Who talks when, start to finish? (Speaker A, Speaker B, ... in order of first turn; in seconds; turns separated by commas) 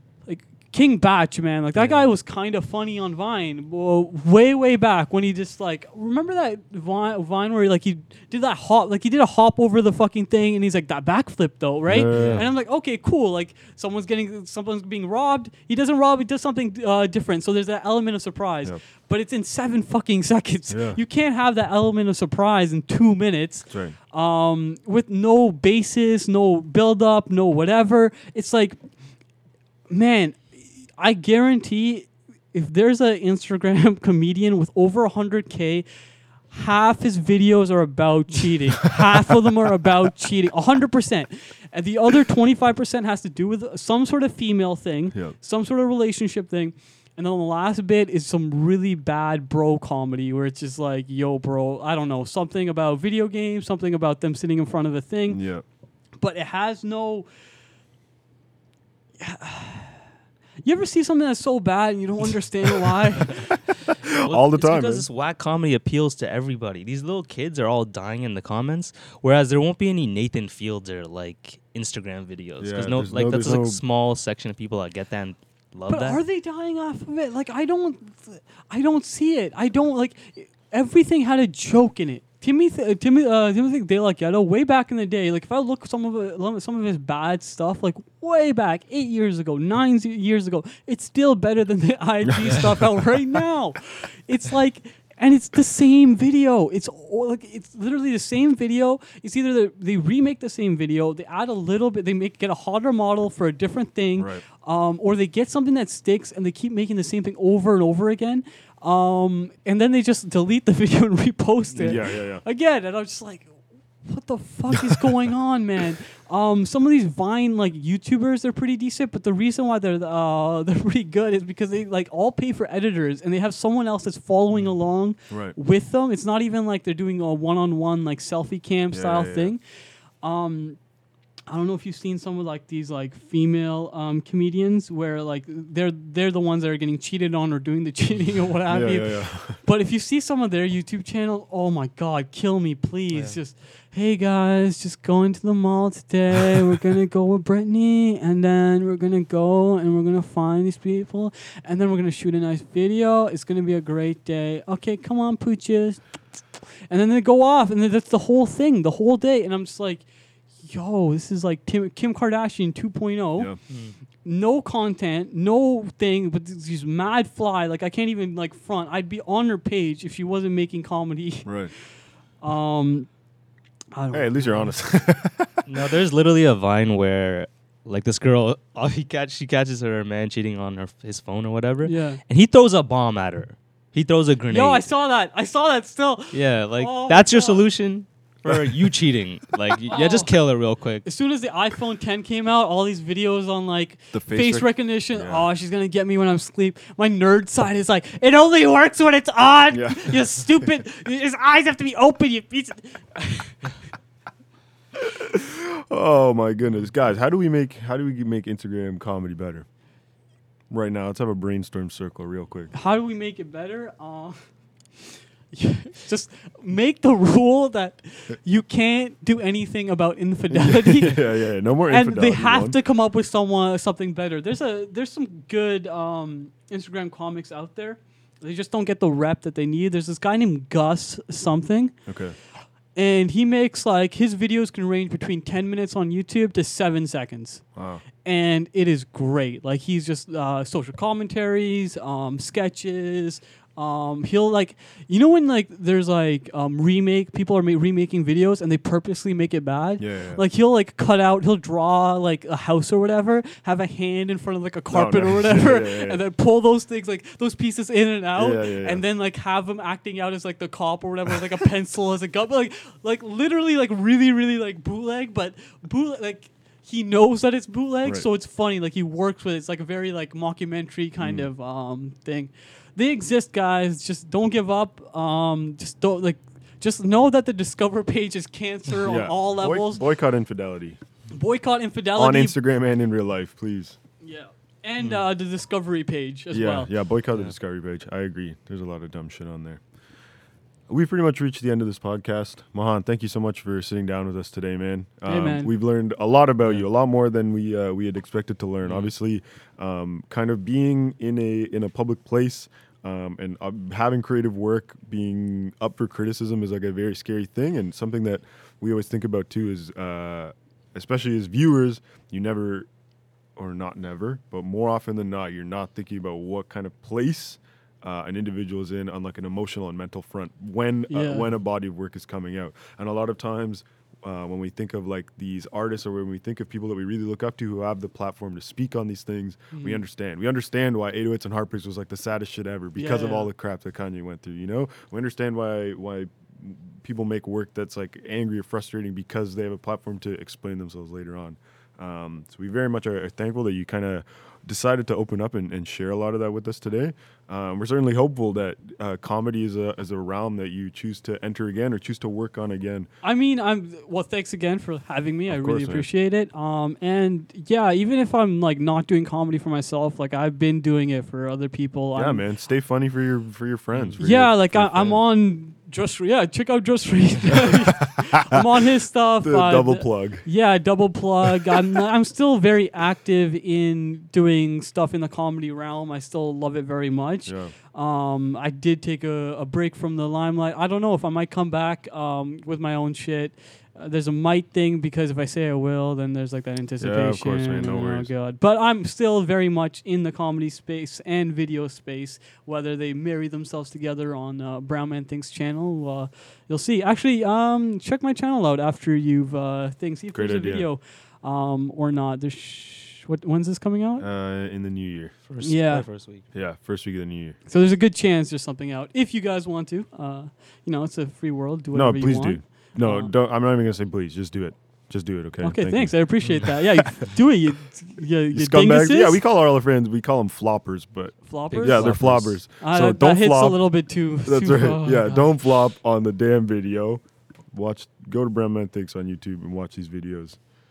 Speaker A: 0.3-28.9, Speaker B: 1.8-2.1, Speaker C: 11.9-12.5, Speaker B: 12.1-12.5, Speaker C: 20.7-21.0, Speaker C: 23.7-24.0, Speaker A: 29.9-35.9, Speaker A: 36.5-55.4, Speaker C: 55.3-55.6, Speaker A: 56.2-57.3, Speaker A: 59.2-60.0, Speaker A: 60.6-63.6, Speaker C: 64.2-65.1, Speaker B: 64.2-76.2, Speaker C: 72.6-73.8, Speaker A: 75.9-129.6, Speaker C: 104.2-104.4, Speaker B: 111.7-112.1, Speaker C: 111.8-112.4, Speaker C: 125.3-125.5, Speaker C: 128.9-129.5, Speaker A: 130.2-130.8, Speaker A: 131.5-160.1, Speaker C: 138.7-139.6, Speaker A: 160.6-173.1, Speaker B: 163.7-164.0, Speaker C: 171.4-171.7, Speaker A: 173.9-174.8, Speaker C: 174.1-175.7, Speaker B: 175.7-184.8, Speaker A: 181.8-182.2, Speaker A: 184.5-187.7, Speaker B: 186.3-191.1, Speaker C: 188.5-188.8, Speaker A: 189.9-190.4, Speaker A: 191.0-203.6, Speaker C: 194.1-195.5, Speaker C: 199.7-200.5, Speaker C: 205.0-209.7, Speaker C: 210.7-212.7, Speaker A: 212.7-214.4, Speaker A: 215.5-232.1, Speaker C: 220.5-222.8, Speaker C: 232.1-232.4, Speaker A: 232.9-237.7, Speaker C: 237.8-238.0, Speaker A: 238.2-280.0, Speaker C: 250.0-250.4, Speaker C: 254.9-256.2, Speaker C: 258.4-259.0, Speaker C: 271.2-271.5, Speaker C: 279.0-281.0, Speaker A: 281.3-282.6, Speaker C: 282.1-284.0, Speaker A: 284.2-286.9, Speaker C: 286.5-289.8, Speaker C: 290.9-312.9, Speaker A: 295.2-295.7, Speaker B: 298.8-299.1, Speaker C: 313.6-353.1, Speaker A: 321.1-321.4, Speaker A: 329.7-330.0, Speaker A: 332.9-333.5, Speaker A: 353.2-362.4, Speaker C: 355.5-356.1, Speaker C: 362.1-365.2, Speaker A: 364.2-404.3, Speaker C: 369.4-370.5, Speaker C: 377.5-377.8, Speaker C: 387.0-388.3, Speaker C: 400.3-400.9, Speaker C: 404.2-405.4, Speaker B: 405.5-406.5, Speaker A: 405.6-406.1, Speaker C: 406.5-407.6, Speaker A: 407.7-413.3, Speaker C: 411.9-417.3, Speaker A: 415.6-419.4, Speaker C: 418.5-430.6, Speaker A: 421.4-425.5, Speaker B: 421.7-422.6